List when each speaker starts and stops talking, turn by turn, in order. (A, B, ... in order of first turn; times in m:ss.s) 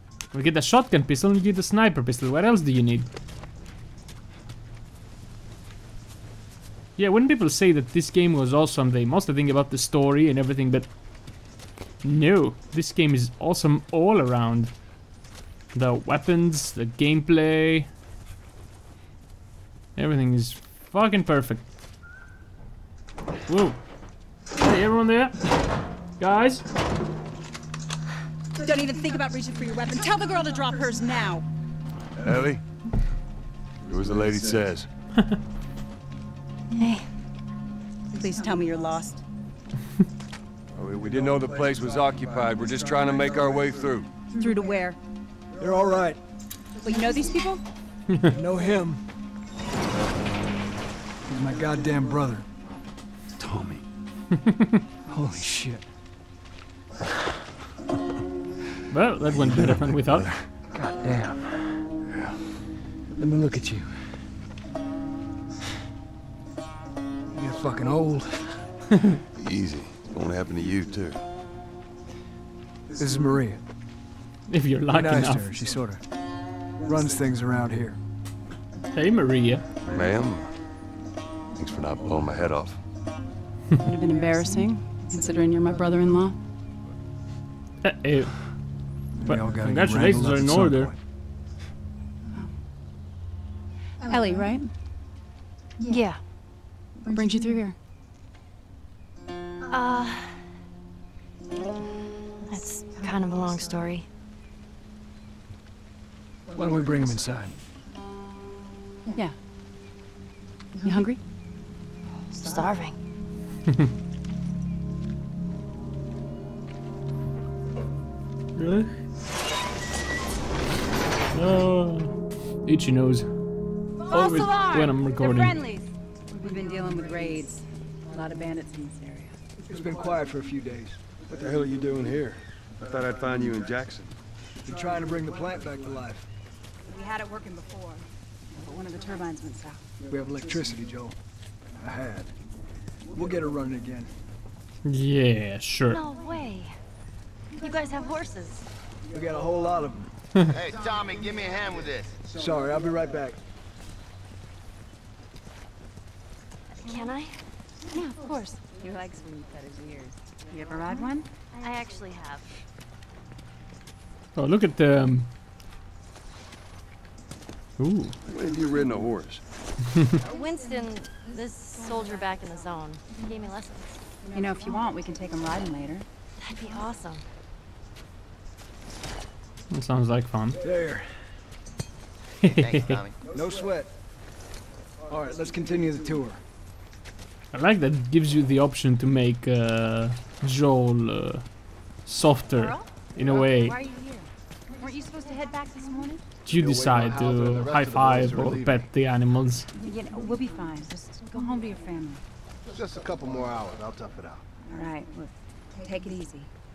0:00.3-0:03.1 A
0:07.0-0:11.4 A
0:12.0-0:14.8 A
0:15.7-0:17.9 A
0:20.0-0:21.7 A
0:23.5-0:23.8 A
0:24.5-0:26.6 A
0:28.6-0:31.4 B
0:32.2-0:32.6 C
0:33.8-0:34.9 C
0:36.8-0:37.1 D
0:38.1-0:39.2 B
0:40.8-0:44.1 C
0:44.4-0:45.0 B
0:45.6-0:46.2 E
0:46.8-0:47.6 B
0:48.3-0:49.0 E
0:51.3-0:52.5 E
0:53.4-0:53.8 C
0:54.5-0:54.8 A
0:55.1-0:55.8 E
0:58.9-1:00.3 A
0:59.8-1:00.4 C
1:00.7-1:01.8 E
1:02.1-1:02.4 C
1:03.2-1:04.1 E
1:07.3-1:08.7 E
1:09.4-1:11.2 C
1:13.0-1:13.6 E
1:14.5-1:15.5 A
1:14.9-1:16.0 E
1:16.8-1:18.0 E
1:18.9-1:19.6 A
1:19.9-1:20.5 C
1:21.6-1:22.8 C
1:23.8-1:26.4 B
1:27.8-1:28.6 A
1:29.2-1:31.0 E
1:29.2-1:30.9 A
1:34.1-1:34.7 B
1:35.9-1:36.2 D
1:37.1-1:37.8 B
1:39.7-1:40.4 D
1:42.5-1:44.1 D
1:46.6-1:47.6 E
1:50.8-1:51.2 B
1:52.3-1:53.0 D
1:58.6-1:58.9 A
2:01.3-2:03.3 A
2:04.1-2:05.9 B
2:04.1-2:05.6 A
2:06.4-2:09.3 B
2:09.6-2:11.0 E
2:11.3-2:14.1 C
2:14.6-2:16.3 E
2:16.9-2:18.1 B
2:18.6-2:19.8 B
2:20.1-2:21.2 E
2:21.8-2:22.3 E
2:23.1-2:24.1 E
2:24.8-2:26.0 A
2:25.9-2:26.8 D
2:27.6-2:28.6 D
2:29.1-2:30.1 E
2:30.5-2:32.2 F
2:32.3-2:33.4 E
2:36.8-2:37.4 D
2:37.9-2:41.3 B
2:41.6-2:42.5 D
2:44.4-2:45.3 A
2:47.8-2:48.2 A
2:48.2-2:49.4 C
2:50.2-2:54.0 D
2:54.3-2:56.1 B
2:56.4-2:57.2 D
2:59.7-3:00.6 A
3:00.6-3:01.1 E
3:02.4-3:03.0 A
3:02.4-3:03.2 F
3:03.3-3:03.9 E
3:05.1-3:06.4 E
3:07.5-3:13.8 A
3:12.5-3:16.2 B
3:16.4-3:19.7 A
3:16.5-3:16.9 C
3:18.0-3:18.6 C
3:19.8-3:22.2 B
3:22.7-3:24.4 F
3:24.7-3:26.5 B